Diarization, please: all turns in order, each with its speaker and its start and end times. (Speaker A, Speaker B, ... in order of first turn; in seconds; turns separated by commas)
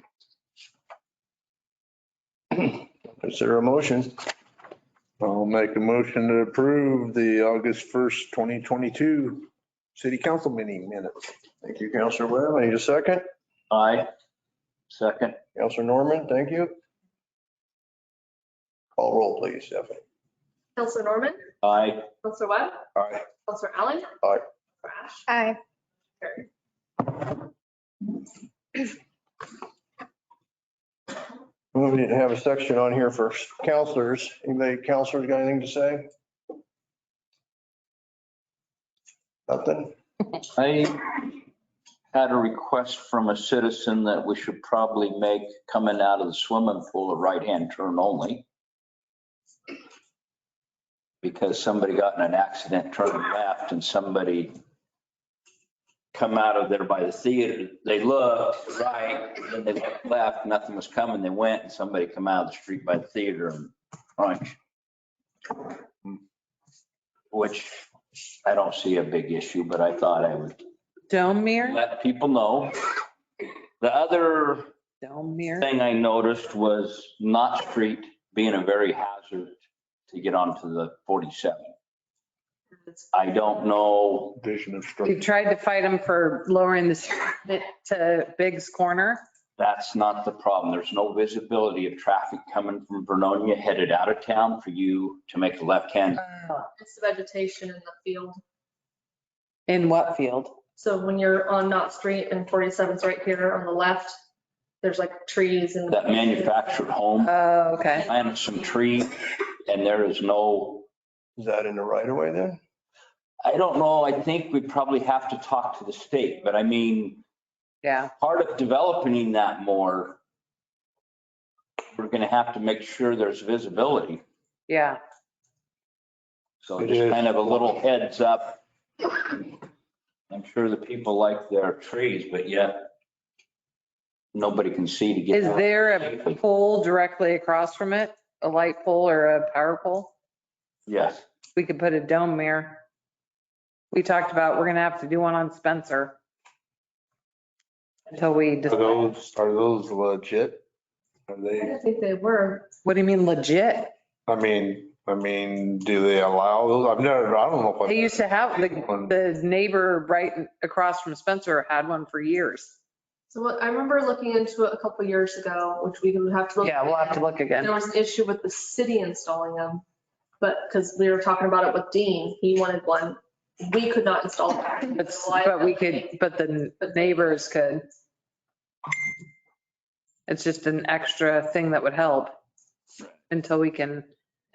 Speaker A: 2.5-4.2, Speaker B: 5.2-11.3, Speaker A: 11.6-13.2, Speaker C: 13.7-14.1, Speaker C: 14.9-15.4, Speaker A: 15.6-16.8, Speaker A: 19.0-20.0, Speaker D: 20.8-21.4, Speaker C: 21.6-22.1, Speaker D: 22.2-22.8, Speaker B: 23.0-23.2, Speaker D: 23.5-24.1, Speaker D: 24.8-25.2, Speaker D: 26.2-26.5, Speaker A: 31.7-36.1, Speaker A: 39.5-39.9, Speaker C: 40.5-41.4, Speaker C: 42.1-48.5, Speaker C: 51.2-54.5, Speaker C: 56.1-64.6, Speaker C: 65.6-66.2, Speaker C: 67.3-67.8, Speaker C: 68.4-70.6, Speaker E: 71.1-71.8, Speaker C: 71.6-73.0, Speaker C: 73.8-74.7, Speaker E: 75.0-75.7, Speaker C: 75.6-79.6, Speaker C: 80.1-81.7, Speaker C: 83.1-84.4, Speaker B: 84.3-85.2, Speaker E: 85.0-89.2, Speaker C: 89.6-96.2, Speaker E: 96.2-96.7, Speaker D: 96.8-98.4, Speaker E: 99.7-100.5, Speaker D: 100.8-104.2, Speaker D: 104.8-106.8, Speaker C: 105.9-107.3, Speaker E: 107.2-108.1, Speaker C: 108.0-110.9, Speaker A: 111.4-112.6, Speaker C: 113.4-117.2, Speaker E: 117.8-118.1, Speaker C: 118.2-120.2, Speaker C: 122.0-124.2, Speaker E: 124.7-125.0, Speaker C: 126.6-129.5, Speaker B: 126.8-127.7, Speaker C: 130.3-132.9, Speaker C: 134.3-136.4, Speaker E: 135.3-140.1, Speaker C: 140.9-141.2, Speaker E: 141.6-142.8, Speaker E: 143.9-146.2, Speaker E: 148.1-149.0, Speaker B: 148.7-150.6, Speaker B: 151.3-151.8, Speaker D: 151.6-152.7, Speaker E: 152.8-153.9, Speaker B: 154.3-159.2, Speaker E: 157.9-162.8, Speaker D: 163.3-169.8, Speaker E: 166.6-167.7, Speaker D: 170.4-176.1, Speaker E: 174.9-177.8, Speaker E: 180.3-182.3, Speaker E: 183.3-184.1